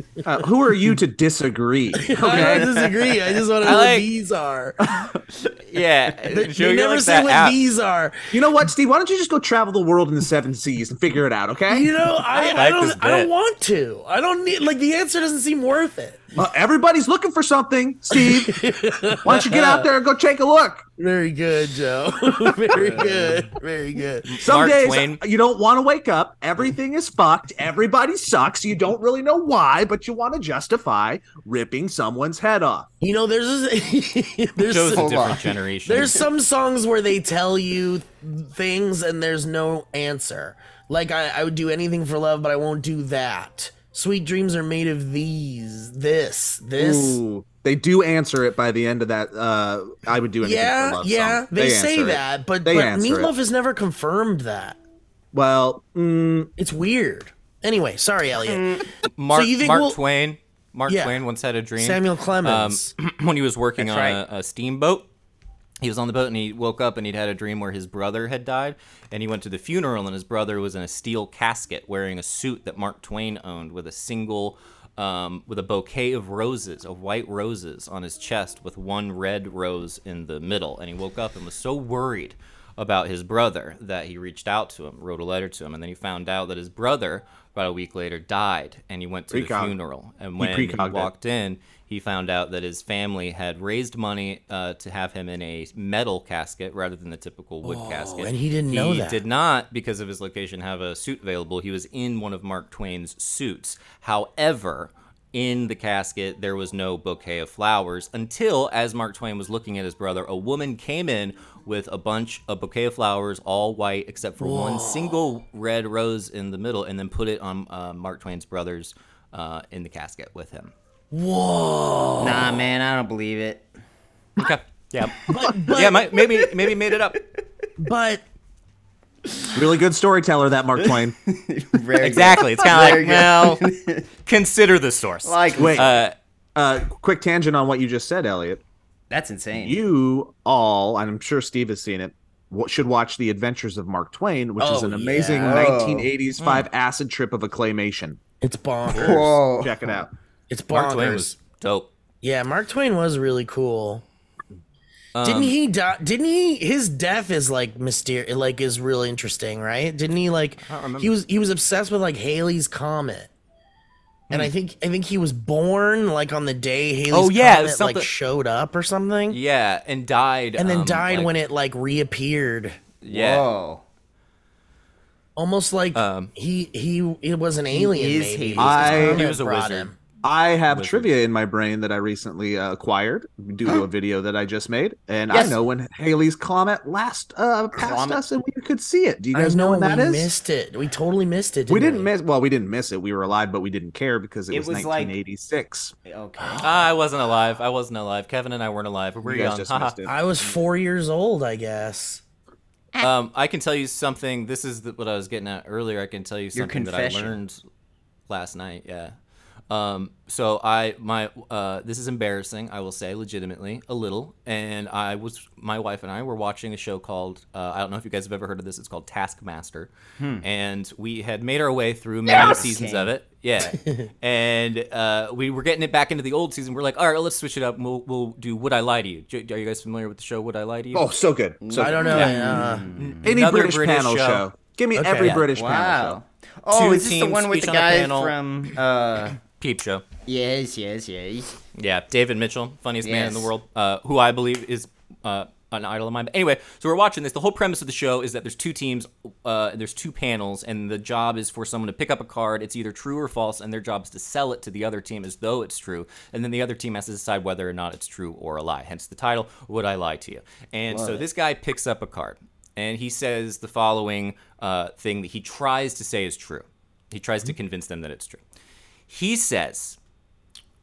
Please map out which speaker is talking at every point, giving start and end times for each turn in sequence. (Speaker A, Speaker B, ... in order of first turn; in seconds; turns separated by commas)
Speaker A: 0.2-2.7, Speaker B: 2.0-4.8, Speaker C: 2.3-3.2, Speaker D: 3.6-4.1, Speaker A: 4.8-5.2, Speaker D: 5.7-7.6, Speaker B: 6.3-8.3, Speaker A: 8.3-11.9, Speaker B: 11.7-16.2, Speaker D: 12.3-13.3, Speaker A: 16.4-18.6, Speaker B: 18.1-19.9, Speaker A: 19.2-20.9, Speaker B: 21.0-24.4, Speaker D: 24.3-25.2, Speaker A: 24.4-32.9, Speaker B: 33.0-35.1, Speaker D: 34.6-36.3, Speaker C: 34.9-35.5, Speaker B: 35.9-47.2, Speaker A: 46.8-53.3, Speaker B: 50.4-54.8, Speaker A: 55.3-56.5, Speaker B: 56.6-60.0, Speaker C: 58.4-58.9, Speaker D: 59.2-65.1, Speaker B: 60.9-61.2, Speaker B: 61.8-62.9, Speaker C: 63.8-64.2, Speaker D: 65.8-120.7, Speaker A: 89.3-89.8, Speaker A: 90.4-91.1, Speaker B: 97.6-99.2, Speaker B: 114.4-115.2, Speaker B: 121.1-122.7, Speaker C: 122.2-123.7, Speaker D: 124.4-127.2, Speaker B: 125.3-126.1, Speaker C: 126.4-126.7, Speaker B: 127.8-128.2, Speaker A: 129.5-131.2, Speaker C: 130.8-134.1, Speaker D: 132.0-133.7, Speaker D: 134.2-136.1, Speaker C: 135.2-136.0, Speaker A: 135.6-135.9, Speaker A: 136.6-138.6, Speaker C: 139.1-139.8, Speaker A: 139.5-148.2, Speaker B: 144.6-145.8, Speaker C: 145.1-146.1, Speaker D: 146.4-146.7, Speaker B: 148.4-149.4, Speaker C: 148.9-149.8, Speaker A: 149.6-150.1, Speaker B: 150.5-151.3, Speaker D: 150.7-151.9, Speaker B: 152.2-154.0, Speaker D: 155.2-155.6, Speaker B: 155.2-163.3, Speaker D: 160.7-161.1, Speaker B: 164.3-169.4, Speaker D: 167.1-168.1, Speaker D: 169.3-171.3, Speaker B: 170.6-172.8, Speaker D: 173.0-173.5, Speaker C: 173.1-173.8, Speaker B: 175.4-179.9, Speaker D: 175.9-176.3, Speaker C: 177.7-179.2, Speaker A: 178.6-179.2, Speaker D: 178.8-179.9, Speaker A: 180.2-190.3, Speaker D: 180.7-181.1, Speaker C: 185.3-185.6, Speaker C: 187.8-188.2, Speaker B: 189.3-192.1, Speaker A: 191.7-195.9, Speaker C: 194.5-195.2, Speaker C: 196.1-196.6, Speaker B: 196.4-196.8, Speaker D: 196.6-200.0, Speaker A: 199.2-200.2, Speaker B: 200.1-202.2, Speaker D: 203.0-207.6, Speaker C: 206.6-207.4, Speaker D: 208.3-209.1, Speaker D: 209.7-219.9, Speaker C: 220.2-220.4, Speaker D: 220.4-231.1, Speaker C: 222.3-223.1, Speaker B: 223.8-224.1, Speaker A: 230.9-232.3, Speaker C: 231.6-233.4, Speaker B: 231.8-232.9, Speaker D: 232.1-234.4, Speaker A: 233.2-236.2, Speaker B: 234.9-235.4, Speaker C: 235.5-239.4, Speaker D: 236.7-238.3, Speaker D: 239.5-240.0, Speaker C: 240.3-241.6, Speaker D: 241.8-268.4, Speaker C: 243.0-243.5, Speaker C: 260.9-261.2, Speaker D: 269.1-270.0